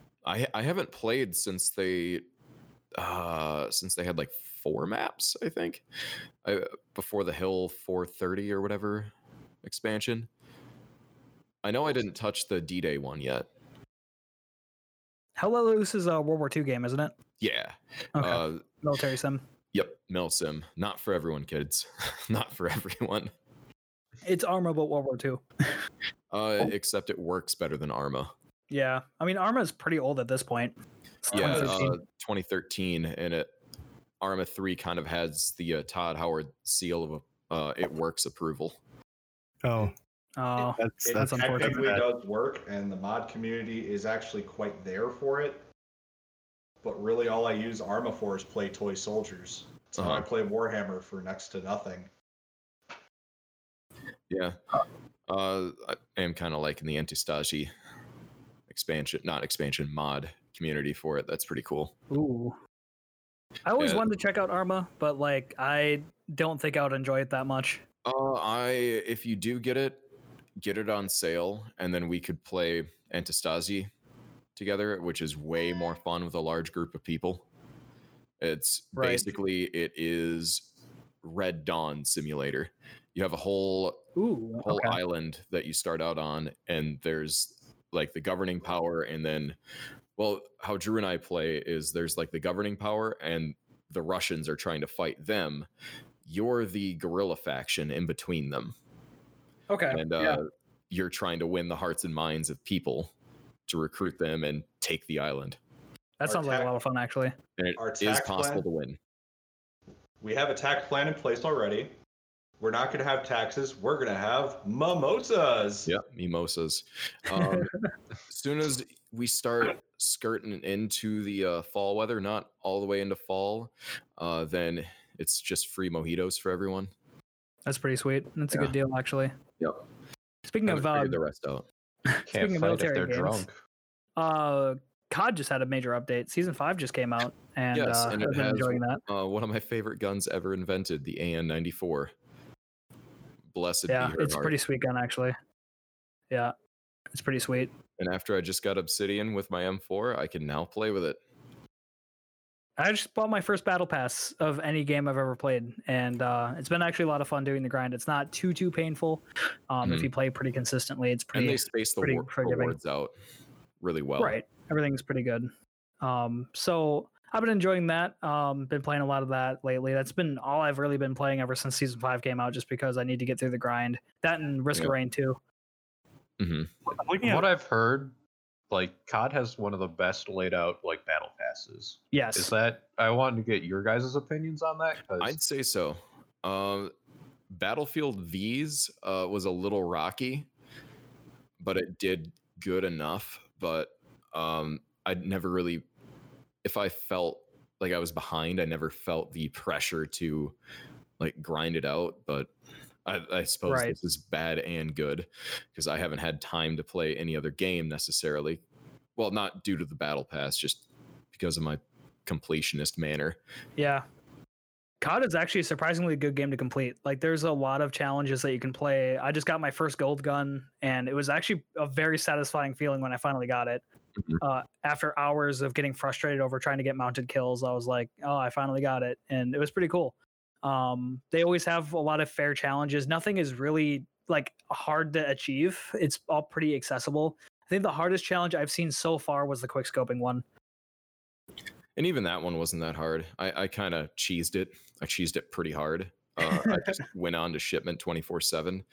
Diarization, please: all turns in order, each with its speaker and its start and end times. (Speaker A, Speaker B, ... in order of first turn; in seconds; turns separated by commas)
Speaker A: 0.2-2.2, Speaker A: 3.0-5.8, Speaker A: 6.4-9.1, Speaker A: 9.6-10.3, Speaker A: 11.6-13.5, Speaker B: 15.4-17.1, Speaker A: 17.4-18.7, Speaker B: 18.1-19.4, Speaker A: 19.7-23.3, Speaker B: 24.2-25.4, Speaker A: 26.3-28.3, Speaker B: 28.7-31.9, Speaker A: 31.3-33.5, Speaker C: 31.4-31.7, Speaker A: 34.2-38.8, Speaker C: 39.6-39.9, Speaker B: 40.4-41.9, Speaker D: 40.6-45.6, Speaker C: 40.8-42.0, Speaker D: 46.8-52.1, Speaker A: 50.0-50.2, Speaker A: 54.3-54.6, Speaker A: 55.3-57.7, Speaker A: 58.7-61.9, Speaker B: 62.1-62.6, Speaker B: 63.6-67.8, Speaker A: 63.8-64.0, Speaker A: 68.0-70.0, Speaker A: 70.6-73.9, Speaker A: 74.5-77.5, Speaker A: 78.4-80.7, Speaker B: 79.0-79.2, Speaker A: 81.2-84.0, Speaker B: 84.2-85.0, Speaker A: 84.6-89.6, Speaker A: 90.2-95.7, Speaker A: 96.2-98.7, Speaker B: 99.7-100.4, Speaker A: 99.9-103.1, Speaker A: 103.7-105.6, Speaker B: 106.2-107.3, Speaker D: 106.2-106.7, Speaker A: 107.6-109.0, Speaker D: 107.8-108.6, Speaker D: 110.2-111.9, Speaker D: 112.6-115.9, Speaker A: 115.8-117.7, Speaker B: 117.3-117.8, Speaker A: 118.3-126.9, Speaker B: 127.6-129.3, Speaker B: 130.5-131.2, Speaker A: 130.6-131.6, Speaker B: 132.1-133.4, Speaker E: 132.3-133.6, Speaker B: 134.2-139.0, Speaker A: 137.7-142.1, Speaker A: 143.5-144.6, Speaker B: 143.9-145.3, Speaker B: 147.1-147.7, Speaker A: 148.0-151.2, Speaker B: 152.8-162.7, Speaker A: 159.8-160.1, Speaker A: 161.3-163.1, Speaker A: 163.8-164.4, Speaker B: 164.2-175.4, Speaker A: 176.4-176.7, Speaker C: 176.9-177.4, Speaker E: 177.2-178.1, Speaker E: 178.7-185.4, Speaker B: 182.1-182.5, Speaker A: 185.2-186.9, Speaker A: 187.5-190.5, Speaker A: 191.6-195.8, Speaker A: 196.6-200.5, Speaker A: 201.2-202.5, Speaker A: 203.0-208.6, Speaker B: 203.7-203.9, Speaker A: 209.2-213.4, Speaker B: 213.8-214.0, Speaker B: 215.0-223.8, Speaker B: 224.4-240.4, Speaker A: 241.9-248.8, Speaker B: 246.4-246.7